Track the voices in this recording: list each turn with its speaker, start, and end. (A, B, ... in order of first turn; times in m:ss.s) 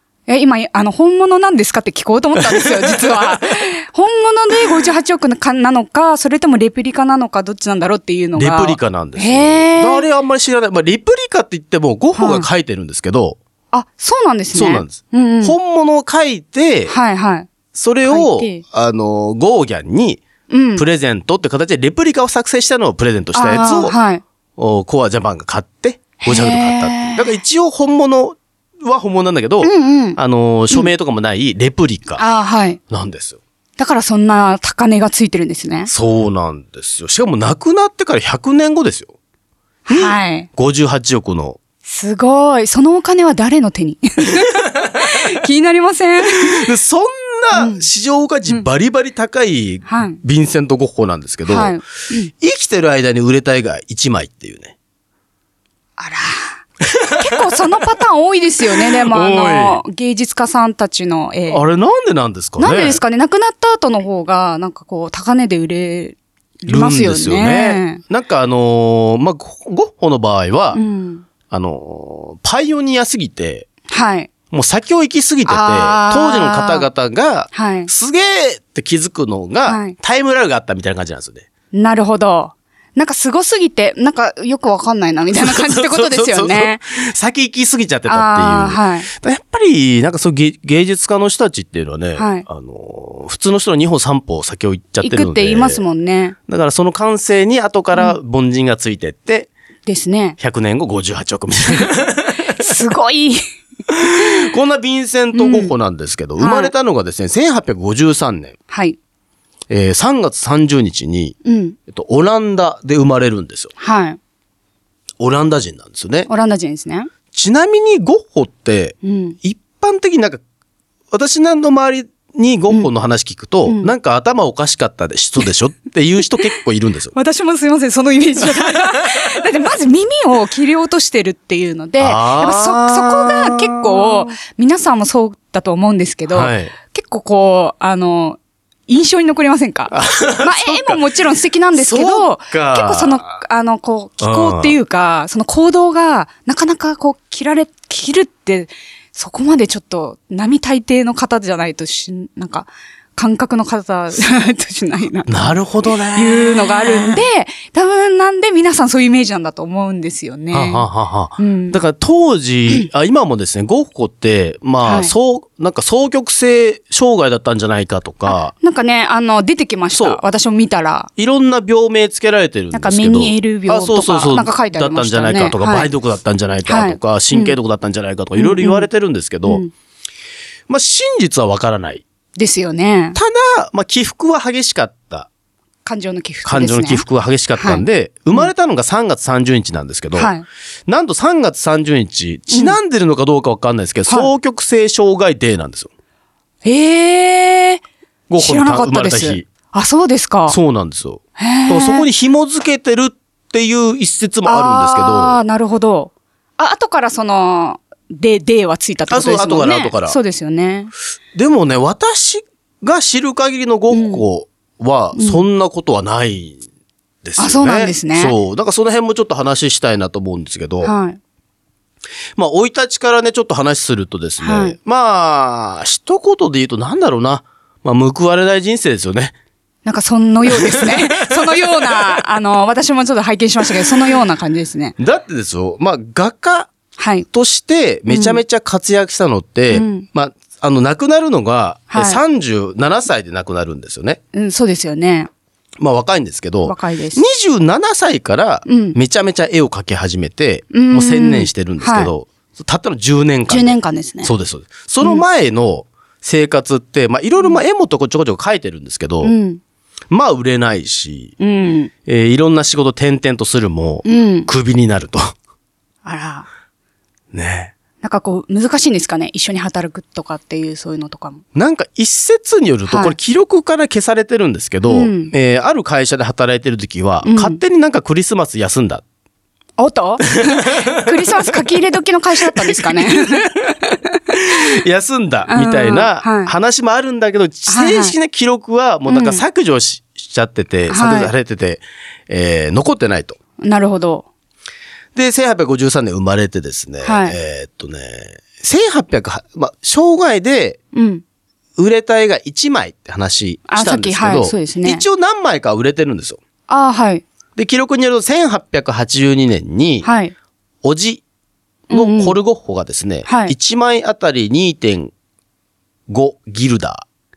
0:00.3-0:10.0 A
0:02.4-0:03.5 B
0:08.3-0:13.4 B
0:12.1-0:12.5 A
0:13.7-0:15.6 A
0:14.5-0:16.9 B
0:16.9-0:17.5 A
0:17.7-0:20.2 B
0:18.0-0:18.6 A
0:20.5-0:20.8 A
0:20.7-0:23.9 B
0:23.3-0:24.2 A
0:24.6-0:32.2 B
0:26.2-0:27.4 A
0:29.6-0:30.2 A
0:32.2-0:32.8 A
0:32.9-0:33.4 B
0:33.8-0:35.9 A
0:35.9-0:39.1 B
0:39.9-0:40.5 A
0:39.9-0:41.6 B
0:41.8-0:46.7 A
0:46.4-0:51.8 B
0:47.5-0:47.8 A
0:49.8-0:50.2 A
0:51.4-0:52.3 A
0:52.4-0:54.7 B
0:56.0-0:56.6 A
0:56.9-0:57.5 B
0:57.2-1:01.6 A
0:58.8-0:59.8 B
1:01.5-1:03.0 B
1:02.6-1:08.0 A
1:06.6-1:10.8 B
1:10.7-1:11.2 A
1:11.5-1:13.7 B
1:13.9-1:14.3 A
1:14.5-1:21.5 B
1:15.4-1:16.9 A
1:17.5-1:17.9 A
1:19.6-1:19.9 A
1:21.7-1:26.8 A
1:25.3-1:35.8 B
1:28.1-1:29.1 A
1:32.2-1:32.4 A
1:35.0-1:36.3 A
1:36.5-1:39.5 B
1:39.8-1:40.4 A
1:40.4-1:42.6 B
1:42.4-1:43.4 A
1:43.9-1:48.5 B
1:45.3-1:45.7 A
1:46.4-1:46.7 A
1:48.7-1:49.0 A
1:49.7-1:51.4 B
1:51.4-1:51.8 A
1:51.9-1:53.7 B
1:53.8-1:54.2 A
1:55.2-1:56.3 B
1:56.3-1:57.1 A
1:57.3-2:00.4 B
1:59.0-1:59.4 A
2:01.1-2:07.1 B
2:03.6-2:03.9 A
2:07.1-2:41.8 A
2:12.0-2:14.3 B
2:16.3-2:16.7 B
2:19.9-2:21.0 B
2:21.7-2:23.4 B
2:24.2-2:24.8 B
2:35.3-2:37.2 B
2:40.5-2:48.5 B
2:44.8-2:45.1 A
2:48.3-2:51.1 A
2:49.9-2:50.2 B
2:51.2-2:59.6 B
2:52.7-2:55.9 A
2:56.6-2:57.6 A
2:58.4-2:58.9 A
2:59.4-2:59.7 A
3:00.7-3:02.0 B
3:02.4-3:03.2 A
3:03.1-3:05.3 B
3:05.8-3:07.0 A
3:06.4-3:10.3 B
3:07.6-3:08.5 A
3:10.1-3:10.4 A
3:10.9-3:15.9 B
3:12.5-3:12.8 A
3:16.6-3:17.8 A
3:18.3-3:19.5 B
3:18.4-3:20.6 A
3:20.5-3:25.4 B
3:21.4-3:22.1 A
3:24.4-3:30.9 A
3:29.1-3:30.2 B
3:31.3-3:36.6 B
3:33.9-3:34.2 A
3:35.1-3:35.4 A
3:37.2-3:40.9 B
3:37.4-3:38.3 A
3:40.8-3:41.2 A
3:42.4-3:49.3 B
3:44.4-3:44.8 A
3:49.8-3:54.9 A
3:50.5-3:52.2 B
3:55.0-3:56.7 B
3:57.0-3:57.2 A
3:57.3-4:04.2 B
3:58.1-3:58.4 A
3:59.7-4:00.0 A
4:01.9-4:02.2 A
4:04.3-4:05.3 A
4:05.8-4:19.3 B
4:06.6-4:07.2 A
4:08.6-4:09.0 A
4:10.7-4:12.1 A
4:13.5-4:14.3 A
4:19.2-4:19.6 A
4:20.1-4:21.3 B
4:21.4-4:21.9 A
4:22.0-4:25.3 B
4:24.0-4:24.5 A
4:26.0-4:26.5 A
4:27.3-4:27.7 B
4:28.0-4:31.4 A
4:31.5-4:39.0 B
4:32.9-4:33.2 A
4:34.8-4:35.3 A
4:37.2-4:37.6 A
4:39.8-4:44.6 A
4:40.8-4:41.6 B
4:42.4-4:43.8 B
4:44.3-4:53.4 B
4:45.5-4:46.5 A
4:47.7-4:48.1 A
4:49.1-4:49.4 A
4:50.9-4:51.3 A
4:53.6-4:54.2 A
4:55.1-5:00.8 B
4:57.0-4:57.4 A
5:00.9-5:01.2 A
5:01.8-5:06.4 B
5:03.7-5:05.0 A
5:06.7-5:07.2 A
5:07.6-5:10.1 B
5:10.0-5:10.3 A
5:10.8-5:11.2 B
5:11.9-5:12.4 A
5:11.9-5:15.1 B
5:13.2-5:13.5 A
5:16.1-5:17.0 B